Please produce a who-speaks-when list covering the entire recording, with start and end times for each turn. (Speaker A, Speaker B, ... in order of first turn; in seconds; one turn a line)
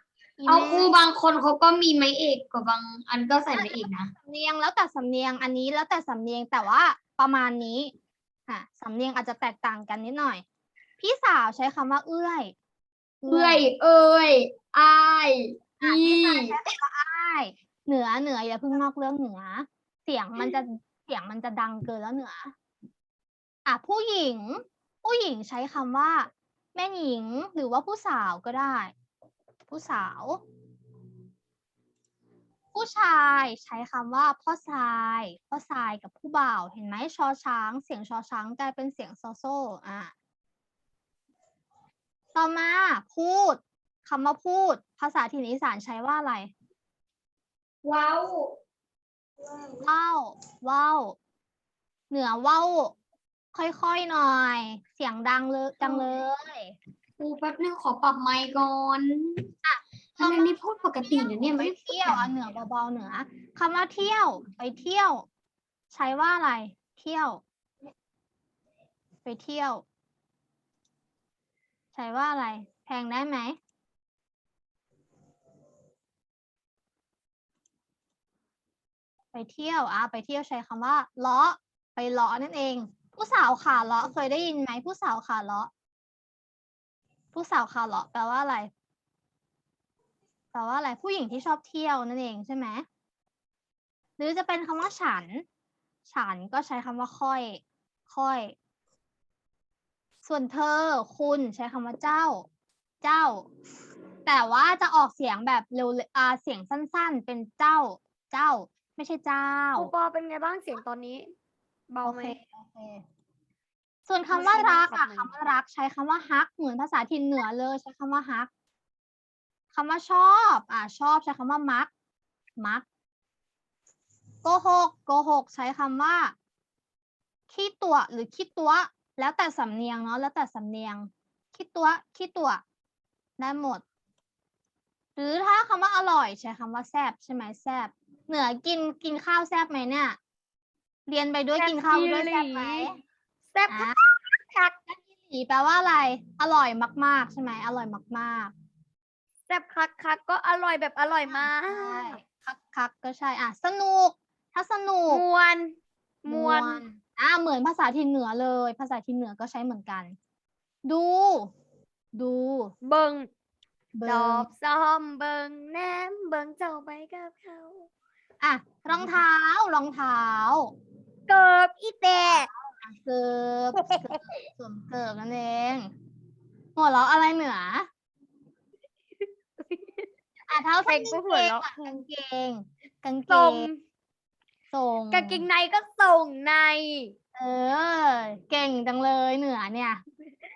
Speaker A: 0.4-0.9
Speaker B: 0.5-4.1
Speaker A: 3.5-7.9
Speaker A: 8.5-10.4
Speaker A: 11.0-12.5
Speaker A: 13.2-13.7
Speaker B: 13.3-16.6
Speaker A: 15.8-22.5
Speaker A: 23.6-28.9
Speaker A: 29.7-30.4
Speaker A: 32.7-40.1
Speaker A: 42.3-46.5
Speaker B: 47.8-48.5
Speaker A: 49.8-51.2
Speaker A: 52.1-52.9
Speaker A: 53.5-56.8
Speaker B: 55.8-56.1
Speaker B: 57.2-59.4
Speaker A: 59.6-65.3
Speaker B: 60.2-62.2
Speaker A: 65.9-67.4
Speaker A: 69.2-69.8
Speaker A: 71.9-73.6
Speaker A: 79.3-85.7
Speaker A: 87.3-88.7
Speaker A: 90.5-92.8
Speaker A: 94.2-95.4
Speaker A: 96.1-98.5
Speaker A: 100.2-102.5
Speaker A: 103.0-103.5
Speaker A: 104.2-109.9
Speaker C: 109.8-111.2
Speaker B: 110.0-111.2
Speaker A: 112.0-113.0
Speaker A: 114.1-118.5
Speaker C: 114.3-115.3
Speaker A: 119.7-121.9
Speaker A: 122.6-122.8
Speaker A: 124.4-126.3
Speaker A: 127.5-132.6
Speaker A: 133.4-133.8
Speaker A: 135.2-140.2
Speaker A: 141.1-143.0
Speaker B: 141.6-142.3
Speaker C: 141.7-142.8
Speaker C: 143.6-143.8
Speaker A: 143.7-144.0
Speaker A: 144.9-148.5
Speaker C: 149.5-152.2
Speaker B: 150.1-151.3
Speaker A: 151.3-155.2
Speaker C: 155.1-155.7
Speaker C: 156.2-156.8
Speaker A: 156.2-160.2
Speaker A: 160.8-161.5
Speaker A: 162.1-162.7
Speaker C: 162.8-163.3
Speaker A: 163.9-164.5
Speaker C: 164.1-167.8
Speaker A: 168.4-170.7
Speaker C: 171.3-172.5
Speaker A: 172.2-175.9
Speaker A: 176.8-177.9
Speaker C: 179.7-180.1
Speaker A: 180.5-183.7
Speaker C: 180.8-182.0
Speaker C: 183.3-183.8
Speaker A: 184.7-185.5
Speaker B: 185.3-187.1
Speaker C: 185.9-186.2
Speaker A: 187.3-190.0